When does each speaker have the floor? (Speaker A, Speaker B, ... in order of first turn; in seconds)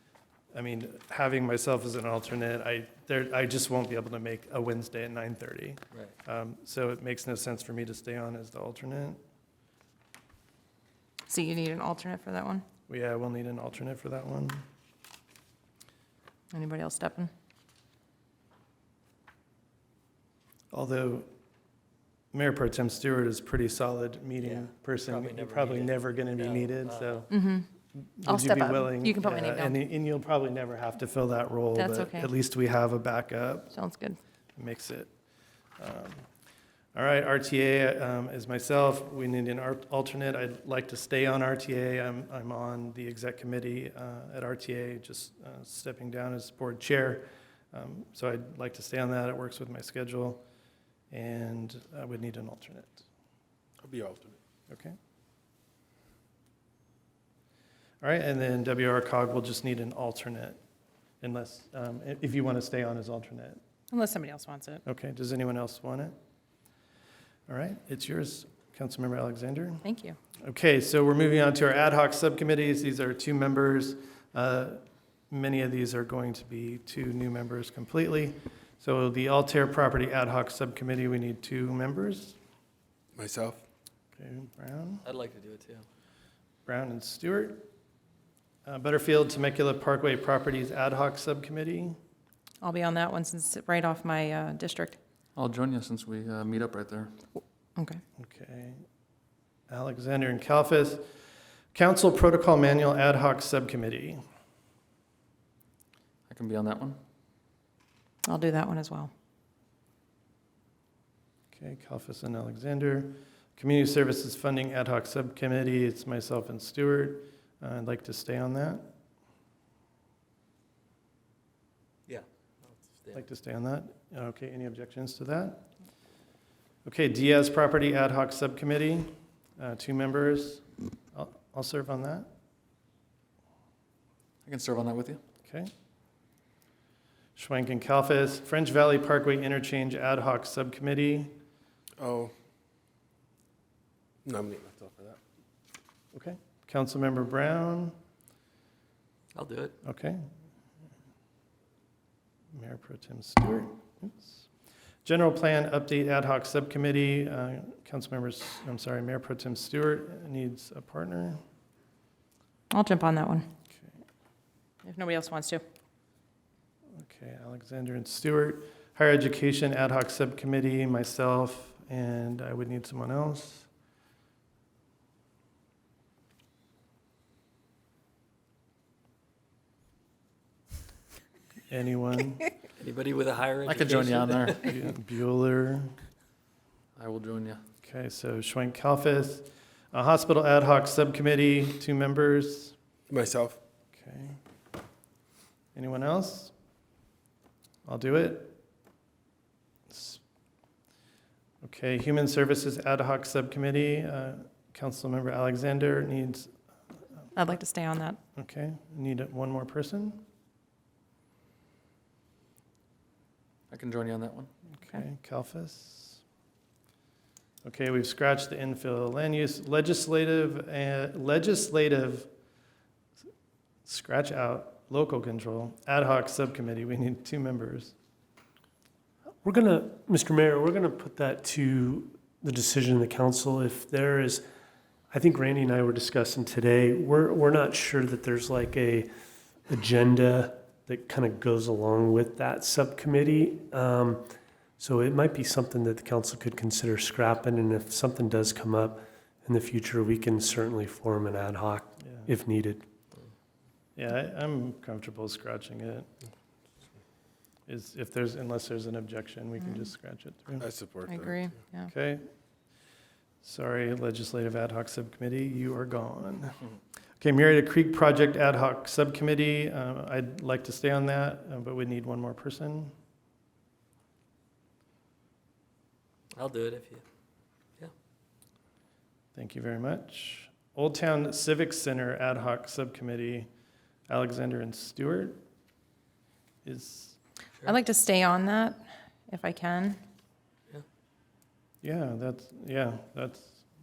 Speaker A: 0.5-9.2, 12.9-14.6, 20.7-21.3, 22.3-27.3, 28.0-33.7, 34.5-35.1, 35.8-36.2, 37.0-50.4, 51.1-53.0, 54.7-55.0, 58.0-60.6, 61.2-63.6, 64.8-66.1, 67.5-69.8, 70.4-82.4, 84.2-85.0, 86.7-87.7, 88.7-92.0, 98.2-98.8, 99.7-101.1, 101.7-104.2, 111.5-118.9, 123.1-125.7, 126.8-132.3, 137.3-141.3, 146.1-147.9, 149.8-150.2, 152.5-154.4, 155.0-161.4, 167.0-173.7, 181.7-182.5, 184.5-185.9, 187.8-192.7, 193.9-194.4, 195.7-196.5, 197.8-198.6, 199.9-200.2, 201.6-206.5, 208.3-210.2, 214.8-216.2, 217.6-222.3, 223.8-227.9, 253.9-256.1, 257.7-260.6, 261.9-262.2, 263.4-266.6, 267.2-272.9, 279.3-283.5, 284.1-285.4, 286.6-287.2, 291.8-293.6
Speaker B: 11.3-12.6, 16.5-17.3, 27.3-27.7, 28.2-29.8, 31.7-32.3, 33.7-34.2, 63.9-64.8, 69.8-70.2, 92.6-95.0, 97.8-98.0, 108.2-109.1, 162.7-163.5, 164.8-165.6, 207.3-208.2, 261.1-261.9, 287.6-290.0
Speaker C: 24.4-27.3, 85.0-85.9, 122.1-123.2, 149.3-149.7, 182.8-184.6, 276.3-277.0
Speaker D: 53.8-54.4, 83.2-83.6, 142.0-142.3, 144.2-145.2, 193.1-193.6, 260.6-261.5
Speaker E: 95.4-97.1, 106.3-107.0, 134.4-135.2, 183.6-184.6, 187.0-187.6, 213.7-214.5
Speaker F: 229.4-234.4, 235.1-239.1, 239.7-252.8